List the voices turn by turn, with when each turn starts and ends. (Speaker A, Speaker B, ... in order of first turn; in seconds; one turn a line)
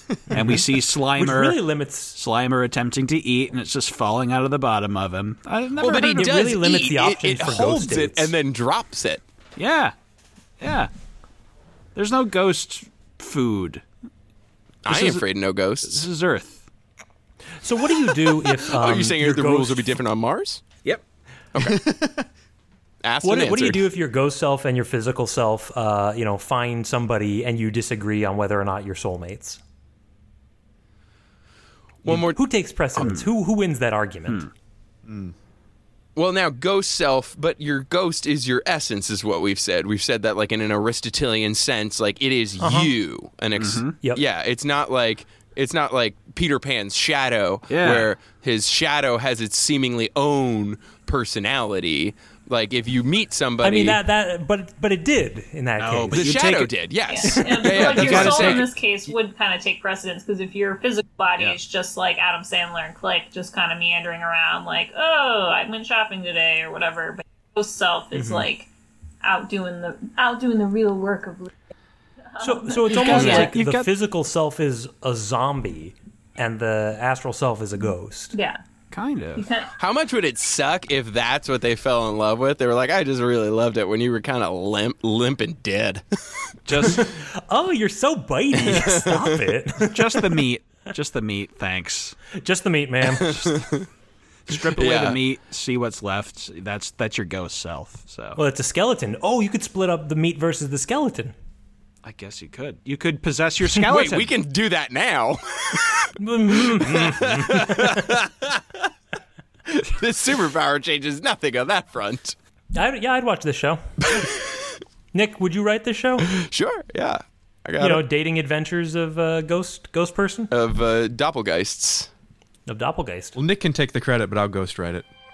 Speaker A: 0.3-6.4
Speaker B: 0.3-0.6
Speaker B: 1.1-2.2
Speaker C: 5.8-9.2
Speaker B: 5.8-8.3
Speaker A: 9.6-9.9
Speaker A: 10.6-10.9
Speaker A: 11.9-13.8
Speaker C: 14.8-16.1
Speaker A: 14.9-15.2
Speaker A: 15.8-16.7
Speaker B: 17.6-20.0
Speaker C: 18.6-20.7
Speaker C: 21.5-21.8
Speaker D: 21.6-22.2
Speaker C: 23.0-23.9
Speaker B: 23.2-29.6
Speaker C: 32.0-32.4
Speaker B: 32.0-34.5
Speaker A: 33.0-33.3
Speaker D: 35.0-35.3
Speaker C: 36.1-54.0
Speaker B: 42.6-42.9
Speaker A: 43.6-44.0
Speaker A: 47.7-48.1
Speaker B: 53.6-56.7
Speaker A: 55.8-56.7
Speaker C: 56.1-58.7
Speaker E: 57.1-68.7
Speaker B: 57.2-58.5
Speaker A: 57.6-58.6
Speaker B: 68.1-68.5
Speaker E: 69.2-71.5
Speaker E: 72.3-73.5
Speaker B: 72.4-78.3
Speaker A: 72.9-73.9
Speaker C: 73.1-73.5
Speaker E: 78.3-78.6
Speaker A: 78.9-79.5
Speaker E: 79.3-79.7
Speaker C: 79.8-86.9
Speaker A: 86.7-87.1
Speaker B: 86.8-90.4
Speaker C: 88.6-89.4
Speaker A: 89.8-92.2
Speaker B: 92.3-93.5
Speaker C: 93.1-93.9
Speaker A: 94.5-98.4
Speaker C: 94.7-95.2
Speaker B: 98.3-101.3
Speaker A: 102.0-104.3
Speaker C: 103.7-108.8
Speaker B: 106.2-108.0
Speaker C: 109.7-112.3
Speaker B: 112.7-114.3
Speaker B: 115.1-116.3
Speaker C: 116.2-118.0
Speaker B: 117.8-120.5
Speaker C: 120.5-122.1
Speaker B: 122.7-123.3
Speaker D: 123.3-125.1